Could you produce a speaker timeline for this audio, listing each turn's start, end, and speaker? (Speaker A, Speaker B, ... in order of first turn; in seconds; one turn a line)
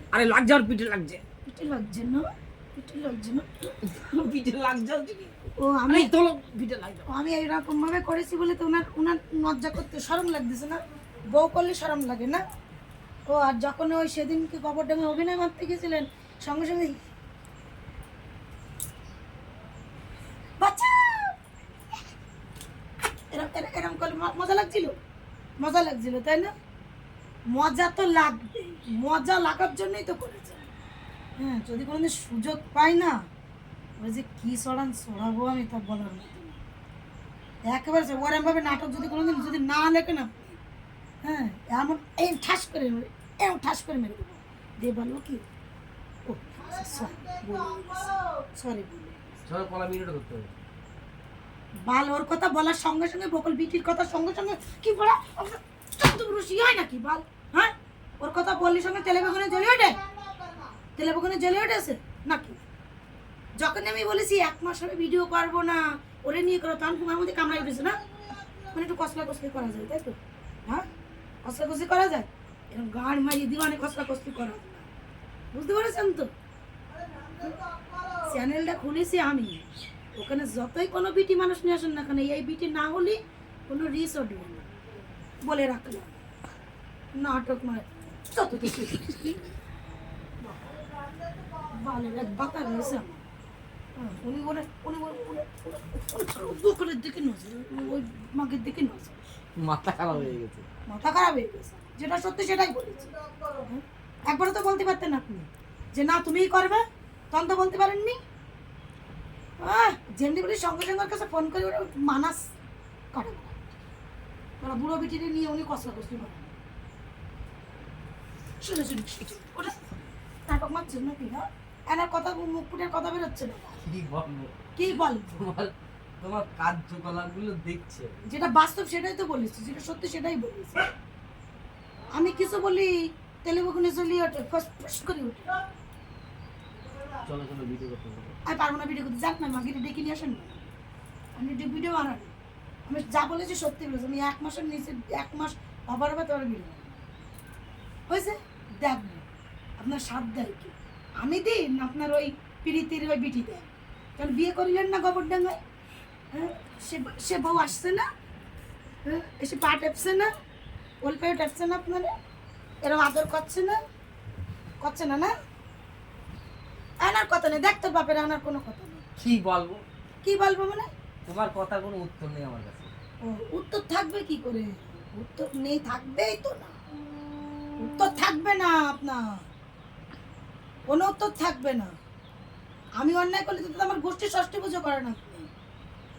Speaker A: 0.1-1.2
Speaker B: 1.5-3.7
Speaker A: 3.8-5.3
Speaker B: 5.6-6.1
Speaker A: 5.9-7.1
Speaker B: 7.1-10.8
Speaker B: 11.3-12.4
Speaker B: 13.3-17.0
Speaker B: 20.6-21.4
Speaker B: 23.3-25.0
Speaker B: 25.6-26.5
Speaker B: 27.5-30.7
Speaker B: 31.4-33.2
Speaker B: 34.0-36.5
Speaker B: 37.7-40.6
Speaker B: 41.2-45.4
Speaker B: 46.3-49.4
Speaker A: 49.5-50.5
Speaker B: 51.9-60.0
Speaker B: 61.0-62.6
Speaker B: 63.6-68.0
Speaker B: 68.7-70.8
Speaker B: 71.4-74.8
Speaker B: 75.5-76.3
Speaker B: 78.2-79.7
Speaker B: 80.2-84.7
Speaker B: 85.4-86.2
Speaker B: 87.2-89.5
Speaker B: 91.7-93.2
Speaker B: 94.0-99.2
Speaker A: 99.6-100.7
Speaker B: 100.9-108.2
Speaker B: 109.6-112.6
Speaker B: 113.1-113.7
Speaker B: 114.6-116.5
Speaker B: 118.6-119.8
Speaker B: 120.5-123.8
Speaker A: 123.8-128.2
Speaker B: 124.8-125.5
Speaker B: 128.2-130.9
Speaker B: 132.1-135.6
Speaker A: 137.2-138.4
Speaker B: 138.5-140.7
Speaker B: 141.4-142.3
Speaker B: 142.9-146.9
Speaker B: 148.1-149.3
Speaker B: 149.8-155.6
Speaker B: 156.3-158.1
Speaker B: 159.1-160.3
Speaker B: 161.0-162.1
Speaker B: 162.8-163.8
Speaker B: 164.8-165.3
Speaker B: 167.0-169.1
Speaker A: 169.2-169.8
Speaker B: 170.2-170.9
Speaker A: 171.3-172.9
Speaker B: 173.2-176.7
Speaker B: 177.8-179.4
Speaker B: 180.9-181.9
Speaker B: 183.0-185.5